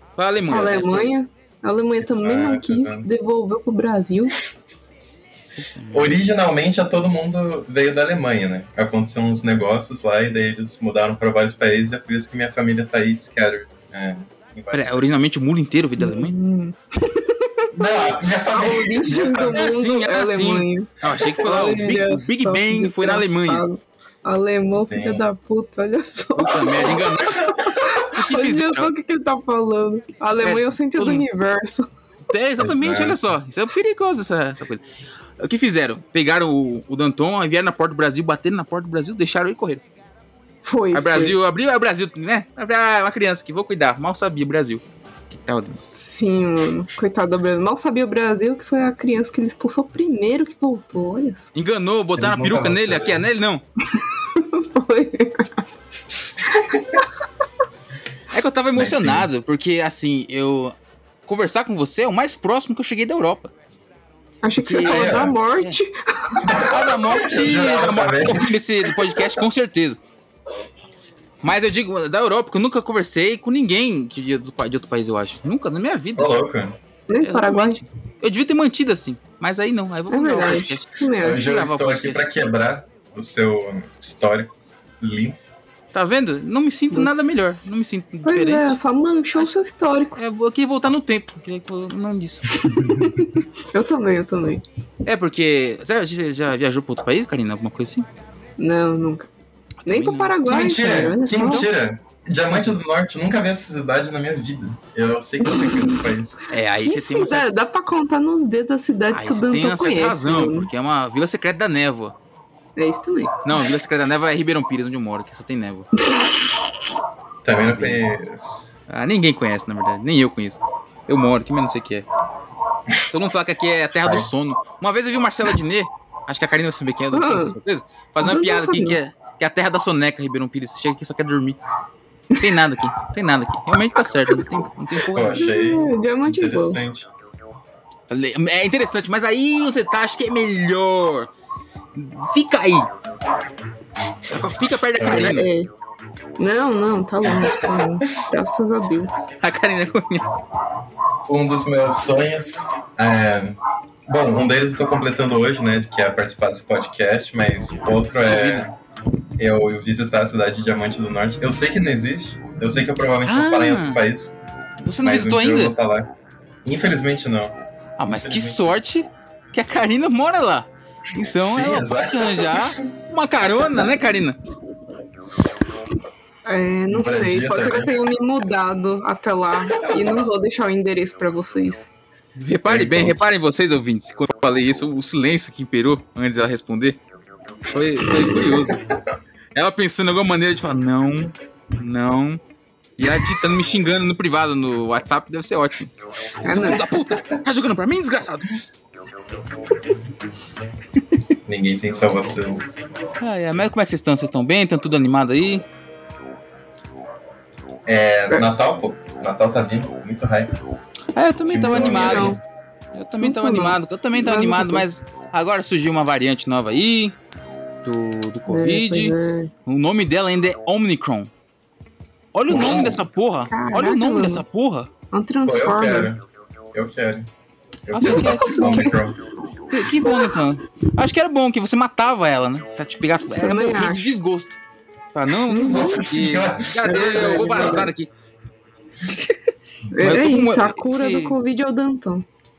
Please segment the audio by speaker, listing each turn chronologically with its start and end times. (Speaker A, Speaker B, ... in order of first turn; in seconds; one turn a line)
Speaker A: 0.2-1.1
Speaker B: 0.5-4.4
Speaker C: 2.0-3.1
Speaker A: 5.6-6.2
Speaker C: 5.9-15.0
Speaker A: 14.7-16.3
Speaker B: 16.0-17.6
Speaker C: 17.7-19.7
Speaker B: 18.5-20.9
Speaker A: 19.5-23.6
Speaker B: 21.4-31.9
Speaker C: 24.7-25.2
Speaker A: 26.4-27.4
Speaker A: 28.1-28.9
Speaker A: 30.4-31.2
Speaker A: 32.3-34.8
Speaker C: 32.6-33.2
Speaker A: 35.4-39.8
Speaker B: 40.6-41.4
Speaker A: 40.9-45.8
Speaker B: 45.9-51.5
Speaker A: 51.5-53.6
Speaker C: 52.2-53.3
Speaker B: 54.4-55.7
Speaker A: 58.3-60.8
Speaker C: 58.8-59.3
Speaker A: 61.3-63.5
Speaker B: 64.4-66.5
Speaker A: 64.6-65.8
Speaker C: 64.8-65.4
Speaker C: 66.4-69.4
Speaker A: 66.6-70.0
Speaker A: 71.4-76.4
Speaker C: 76.2-76.8
Speaker B: 77.1-77.8
Speaker A: 77.2-82.3
Speaker B: 80.1-81.4
Speaker C: 81.2-85.4
Speaker A: 85.9-88.8
Speaker B: 86.9-87.7
Speaker B: 88.2-90.2
Speaker A: 90.2-92.5
Speaker B: 92.7-94.7
Speaker A: 95.0-98.1
Speaker B: 98.6-99.3
Speaker A: 99.8-100.3
Speaker B: 99.9-101.7
Speaker C: 100.5-106.4
Speaker B: 105.5-106.0
Speaker A: 106.5-107.5
Speaker B: 106.8-110.7
Speaker A: 109.1-112.2
Speaker B: 112.8-113.4
Speaker A: 113.4-115.9
Speaker C: 117.4-118.7
Speaker A: 117.6-118.0
Speaker A: 118.9-122.1
Speaker A: 123.1-131.6
Speaker C: 124.0-124.3
Speaker B: 127.1-127.5
Speaker B: 128.2-129.0
Speaker A: 132.4-135.5
Speaker C: 135.1-137.1
Speaker B: 135.4-136.8
Speaker A: 138.1-141.3
Speaker A: 141.9-142.9
Speaker A: 144.3-145.5
Speaker C: 145.0-145.4
Speaker B: 145.1-145.7
Speaker B: 146.4-149.3
Speaker C: 147.2-147.8
Speaker A: 149.4-150.4
Speaker C: 151.3-158.7
Speaker A: 158.3-158.7
Speaker C: 159.4-164.4
Speaker A: 163.2-164.0
Speaker A: 164.8-165.8
Speaker C: 165.0-166.1
Speaker C: 166.7-168.6
Speaker A: 168.0-174.4
Speaker C: 171.2-172.8
Speaker B: 176.4-181.9
Speaker C: 176.9-178.0
Speaker C: 179.8-180.2
Speaker A: 182.4-187.0
Speaker C: 182.7-183.2
Speaker A: 187.7-188.8
Speaker A: 189.6-192.4
Speaker A: 193.0-198.5
Speaker B: 196.4-196.9
Speaker C: 201.5-202.7
Speaker A: 203.2-205.6
Speaker C: 207.9-210.5
Speaker A: 211.2-212.4
Speaker C: 211.4-212.4
Speaker B: 211.7-212.4
Speaker A: 212.9-217.2
Speaker B: 213.2-214.9
Speaker A: 217.8-219.1
Speaker B: 218.5-219.5
Speaker A: 219.7-221.3
Speaker A: 222.3-224.9
Speaker C: 222.5-223.0
Speaker B: 223.5-224.4
Speaker B: 225.1-226.1
Speaker C: 225.4-226.2
Speaker C: 226.7-227.3
Speaker C: 227.9-229.2
Speaker A: 227.9-228.9
Speaker B: 228.0-229.0
Speaker A: 229.7-234.6
Speaker B: 233.3-234.2
Speaker A: 235.1-238.1
Speaker B: 235.5-236.1
Speaker C: 235.6-237.9
Speaker B: 236.8-237.9
Speaker B: 239.9-242.2
Speaker A: 240.0-241.3